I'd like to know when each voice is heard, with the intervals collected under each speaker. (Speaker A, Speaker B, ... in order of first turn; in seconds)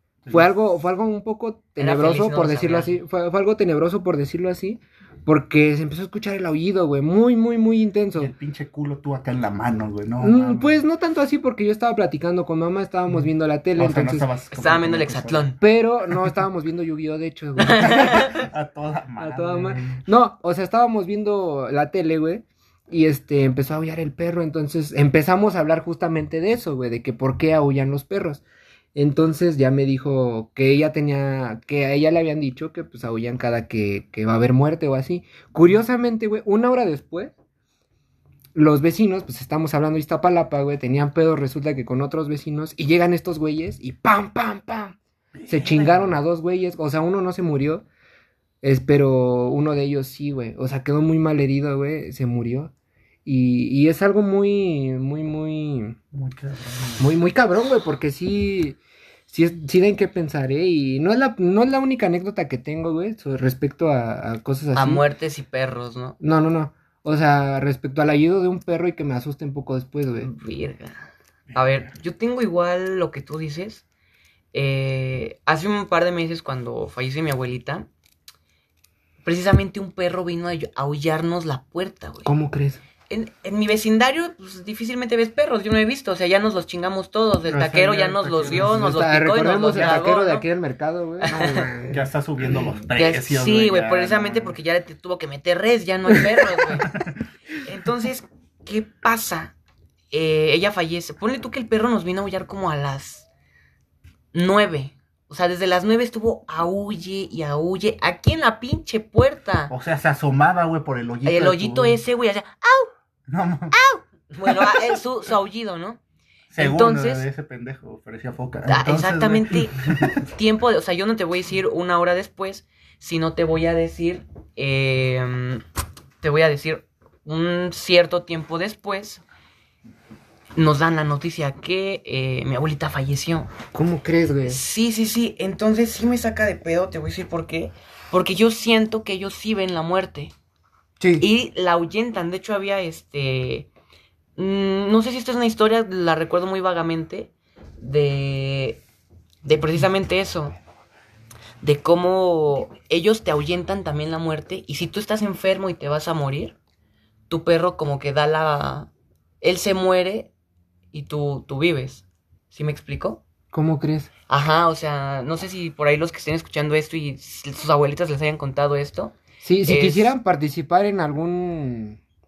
Speaker A: 0.2-0.5, 8.2-10.8, 13.8-15.5, 17.8-20.0, 45.3-46.2, 56.1-57.1, 71.5-71.9, 87.5-88.9, 91.9-94.6, 96.8-97.2, 109.7-112.0, 113.3-113.8, 114.5-115.0, 116.5-120.2
Speaker B: 0.3-8.3, 10.2-14.3, 15.6-18.2, 19.2-28.4, 28.9-37.3, 38.5-45.0, 45.5-47.9, 48.6-52.7, 53.2-56.0, 57.0-65.0, 66.2-70.3, 82.2-82.8, 88.6-92.0, 133.7-134.6, 141.0-141.2, 163.5-164.1, 169.4-172.0
Speaker C: 1.8-2.9, 14.5-15.6, 17.6-18.4, 64.8-66.2, 70.2-71.0, 71.5-73.8, 74.5-77.9, 79.2-82.3, 83.1-90.5, 91.2-91.7, 92.9-96.9, 97.6-99.5, 100.1-103.3, 104.3-109.7, 111.2-112.9, 113.7-116.0, 116.6-117.2, 118.7-125.6, 126.2-129.2, 130.6-133.5, 134.5-140.3, 141.2-143.7, 144.4-148.8, 149.4-150.6, 151.6-156.6, 157.3-158.9, 159.4-160.3, 160.9-163.2, 164.3-170.1